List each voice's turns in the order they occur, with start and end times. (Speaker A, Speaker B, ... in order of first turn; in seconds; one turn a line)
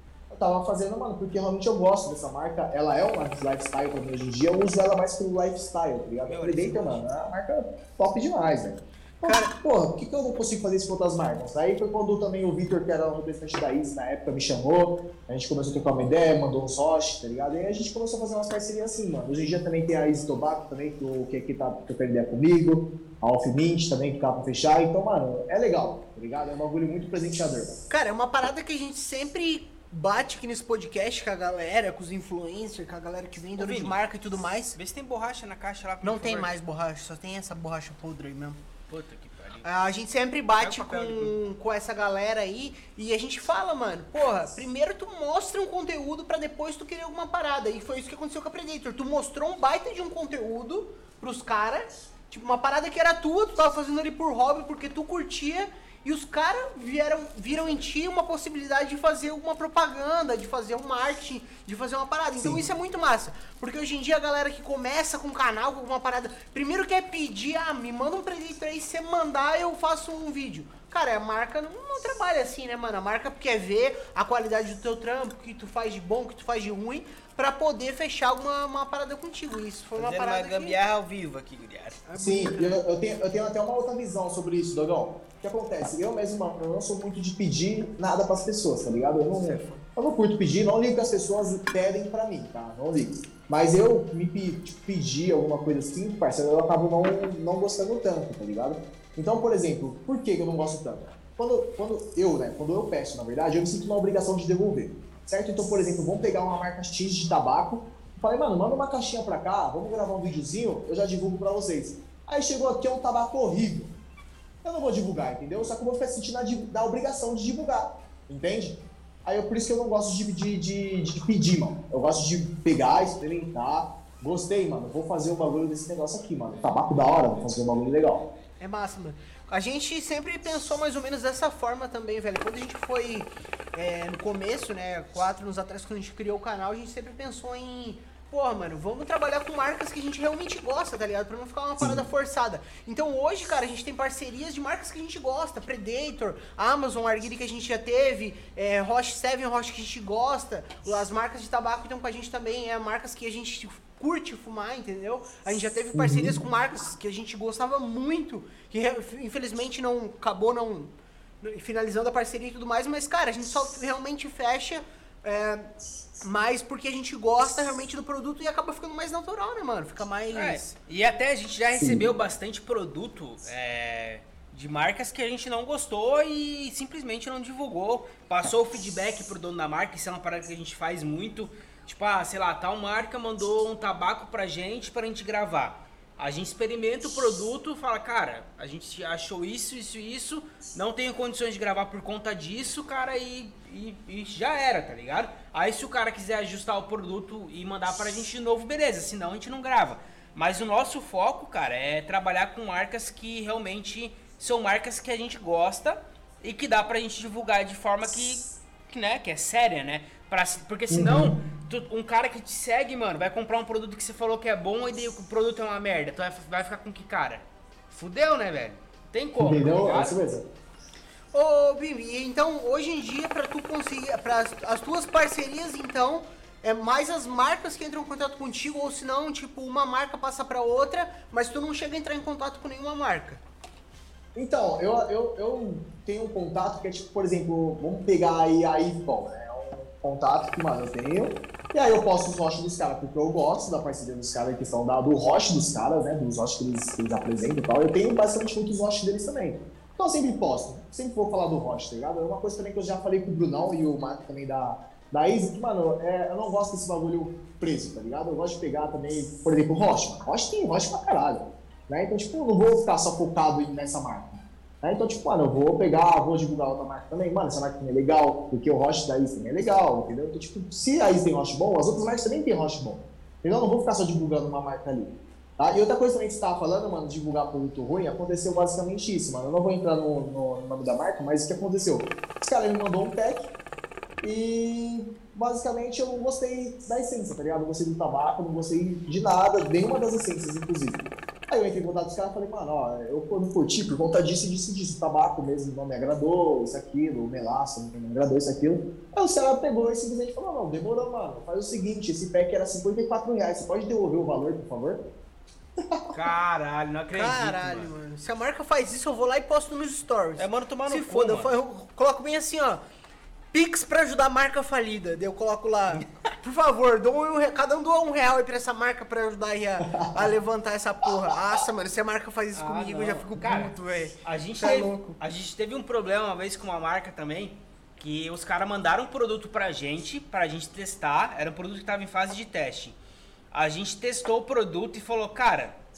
Speaker A: 0.3-27.7
Speaker B: 6.3-7.0
Speaker C: 9.2-9.5
Speaker C: 27.9-34.8
Speaker B: 33.6-34.0
Speaker B: 34.8-36.5
Speaker C: 36.0-38.6
Speaker B: 38.9-39.7
Speaker C: 39.6-80.8
Speaker B: 40.6-41.3
Speaker B: 80.0-82.0
Speaker C: 82.1-82.8
Speaker A: 82.2-113.9
Speaker C: 89.3-89.8
Speaker A: 114.6-128.2
Speaker C: 128.6-165.7
Speaker A: 141.8-142.1
Speaker A: 155.9-156.3
Speaker C: 166.2-170.7
Speaker B: 170.3-220.2
Speaker A: 171.8-172.1
Speaker A: 210.9-211.4
Speaker A: 219.4-220.4
Speaker C: 221.3-233.4
Speaker A: 234.3-283.4
Speaker A: 284.2-305.0
Speaker A: 305.8-306.1
Speaker B: 306.1-307.9
Speaker C: 307.1-312.8
Speaker B: 310.4-311.5
Speaker C: 313.5-325.2
Speaker A: 319.8-320.3
Speaker B: 322.6-333.0
Speaker B: 333.5-335.8